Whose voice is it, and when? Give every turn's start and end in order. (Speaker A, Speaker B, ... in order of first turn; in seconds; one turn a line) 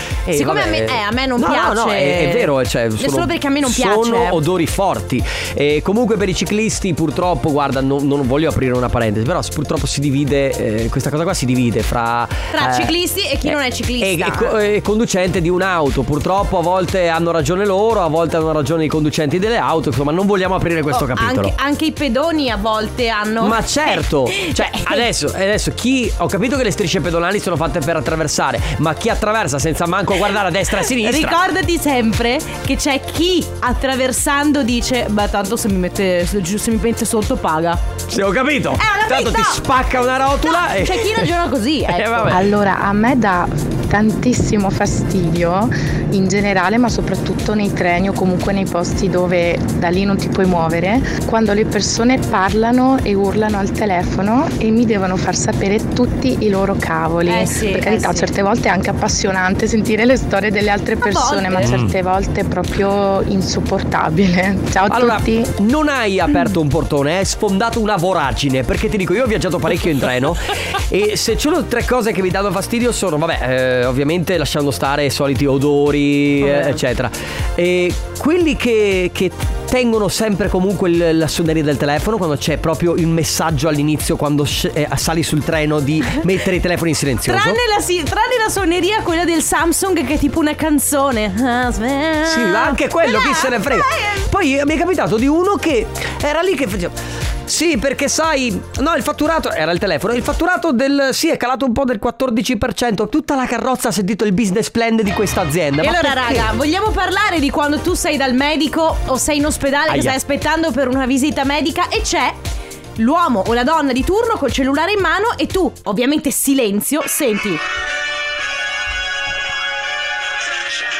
Speaker A: 0.2-12.9
Speaker B: 0.3-4.4
Speaker B: 12.5-14.5
Speaker A: 13.4-21.5
Speaker B: 20.9-25.0
Speaker A: 23.4-31.4
Speaker B: 30.9-37.8
Speaker A: 38.1-41.3
Speaker B: 38.8-39.7
Speaker B: 40.4-42.4
Speaker A: 41.9-42.5
Speaker C: 42.3-65.5
Speaker B: 57.2-58.3
Speaker B: 61.0-61.8
Speaker A: 61.6-61.9
Speaker A: 64.9-87.6
Speaker B: 76.4-76.8
Speaker B: 87.2-94.2
Speaker A: 92.2-106.5
Speaker B: 105.8-112.4
Speaker A: 109.9-110.2
Speaker B: 113.0-117.6